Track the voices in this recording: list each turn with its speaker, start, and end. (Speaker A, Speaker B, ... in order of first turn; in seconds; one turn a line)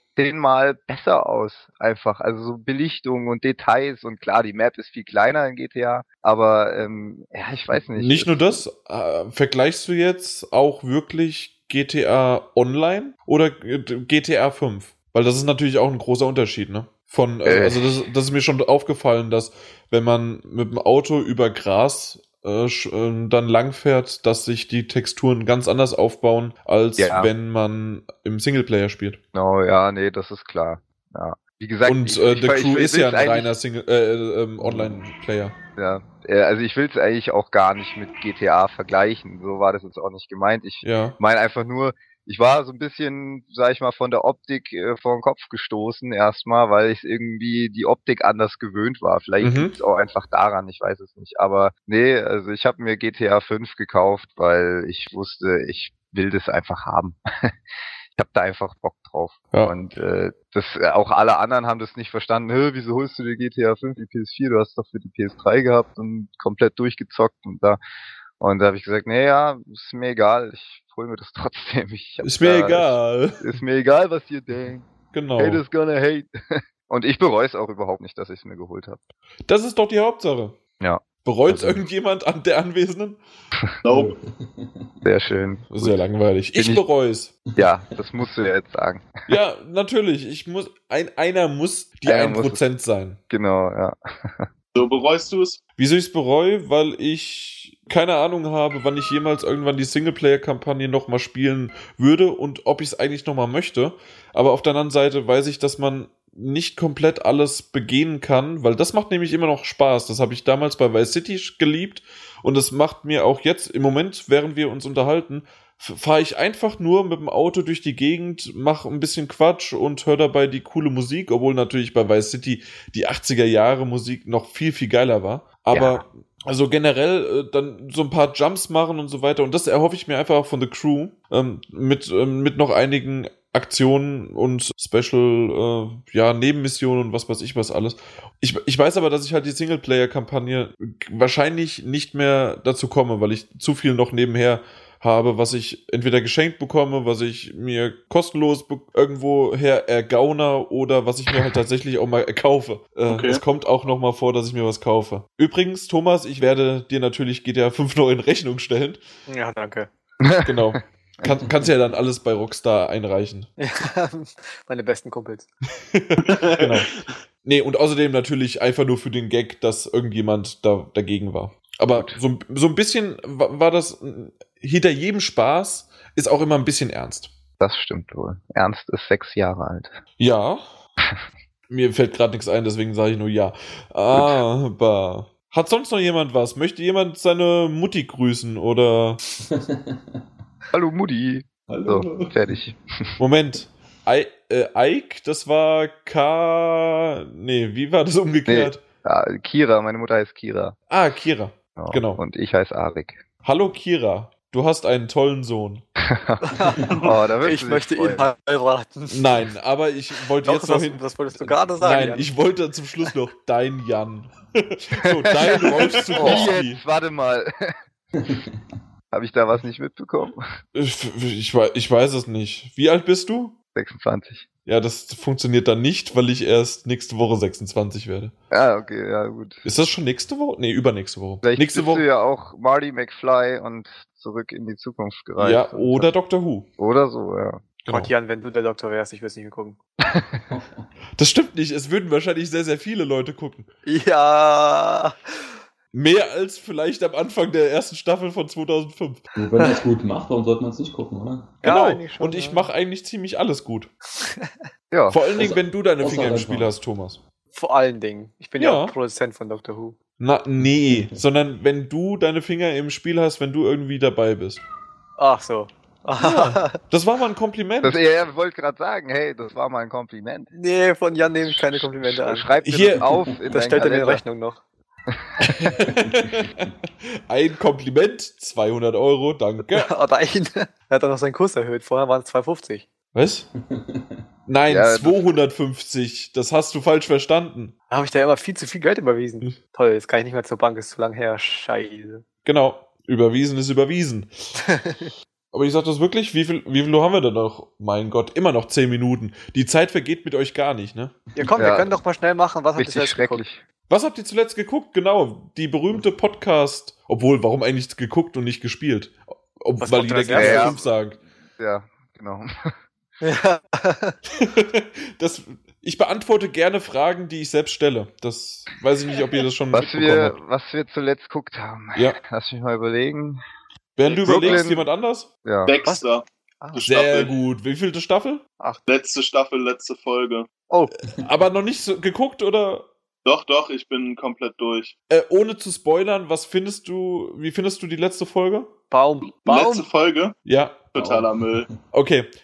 Speaker A: 0.2-8.6
Speaker B: 8.0-29.2
Speaker A: 17.4-18.0
Speaker A: 27.0-27.3
Speaker A: 29.3-33.5
Speaker B: 31.9-35.5
Speaker A: 34.6-35.0
Speaker A: 35.8-57.5
Speaker B: 40.8-41.2
Speaker B: 49.4-49.8
Speaker A: 58.1-67.8
Speaker A: 68.4-79.0
Speaker B: 72.2-73.4
Speaker B: 75.1-75.6
Speaker B: 79.5-80.6
Speaker A: 80.8-81.8
Speaker B: 81.2-83.2
Speaker C: 83.8-84.2
Speaker D: 83.9-85.1
Speaker A: 85.0-86.0
Speaker B: 85.7-87.3
Speaker A: 86.6-86.8
Speaker A: 87.6-89.1
Speaker B: 89.3-93.2
Speaker A: 92.0-92.6
Speaker A: 93.3-94.5
Speaker C: 94.7-95.6
Speaker B: 95.8-159.0
Speaker A: 125.7-126.0
Speaker C: 153.1-153.4
Speaker E: 159.3-159.9
Speaker A: 160.2-161.3
Speaker B: 160.4-163.5
Speaker E: 163.6-165.5
Speaker B: 165.9-166.9
Speaker C: 166.2-166.9
Speaker B: 167.4-177.3
Speaker A: 171.9-172.2
Speaker A: 177.6-179.9
Speaker B: 180.2-180.6
Speaker B: 181.7-189.2
Speaker D: 189.4-190.2
Speaker A: 190.7-192.8
Speaker D: 191.7-192.6
Speaker B: 193.2-198.8
Speaker A: 198.5-200.8
Speaker B: 200.9-202.2
Speaker A: 201.8-203.2
Speaker B: 203.4-205.8
Speaker A: 206.1-208.3
Speaker E: 206.5-206.8
Speaker E: 207.4-209.3
Speaker B: 209.1-216.8
Speaker E: 210.4-212.3
Speaker E: 215.9-216.5
Speaker A: 216.2-217.7
Speaker D: 218.2-218.6
Speaker A: 219.1-220.4
Speaker B: 220.8-223.6
Speaker A: 223.8-224.4
Speaker B: 224.7-228.3
Speaker A: 228.5-229.7
Speaker B: 229.7-232.1
Speaker A: 231.4-236.1
Speaker B: 235.4-236.7
Speaker A: 236.8-237.6
Speaker B: 237.8-238.1
Speaker E: 237.9-239.8
Speaker D: 240.5-240.8
Speaker B: 241.2-243.7
Speaker E: 243.9-245.2
Speaker B: 245.9-249.2
Speaker D: 249.4-251.7
Speaker E: 249.6-249.8
Speaker E: 251.6-252.7
Speaker B: 251.6-253.9
Speaker E: 254.2-254.5
Speaker A: 254.9-255.2
Speaker B: 255.1-257.2
Speaker D: 255.3-256.8
Speaker E: 257.5-260.0
Speaker B: 258.6-258.9
Speaker B: 260.2-264.6
Speaker D: 260.6-261.2
Speaker E: 265.2-266.8
Speaker B: 266.2-268.0
Speaker A: 267.8-270.5
Speaker E: 270.5-272.5
Speaker A: 271.4-274.2
Speaker B: 272.6-273.1
Speaker E: 273.5-274.6
Speaker B: 275.4-276.7
Speaker D: 276.0-276.5
Speaker B: 277.3-279.9
Speaker E: 279.7-282.9
Speaker B: 283.1-283.5
Speaker D: 283.6-284.2
Speaker B: 284.5-287.7
Speaker A: 284.7-285.4
Speaker E: 287.9-292.2
Speaker B: 292.4-294.3
Speaker E: 294.7-295.1
Speaker B: 295.5-301.2
Speaker E: 301.4-303.4
Speaker D: 301.4-301.8
Speaker A: 301.6-301.9
Speaker A: 302.8-303.6
Speaker B: 303.9-311.2
Speaker E: 309.8-310.8
Speaker A: 310.3-310.8
Speaker A: 311.6-312.5
Speaker E: 313.2-314.2
Speaker B: 314.4-320.4
Speaker A: 319.7-323.4
Speaker B: 324.0-325.3
Speaker C: 324.1-324.6
Speaker A: 324.2-324.9
Speaker A: 325.4-325.7
Speaker C: 325.7-327.3
Speaker B: 326.9-328.4
Speaker C: 328.9-330.5
Speaker B: 331.1-332.9
Speaker C: 333.2-334.9
Speaker B: 335.1-338.7
Speaker E: 338.9-339.9
Speaker C: 339.4-340.4
Speaker B: 340.4-340.8
Speaker C: 340.9-341.7
Speaker D: 341.0-341.8
Speaker B: 341.9-342.3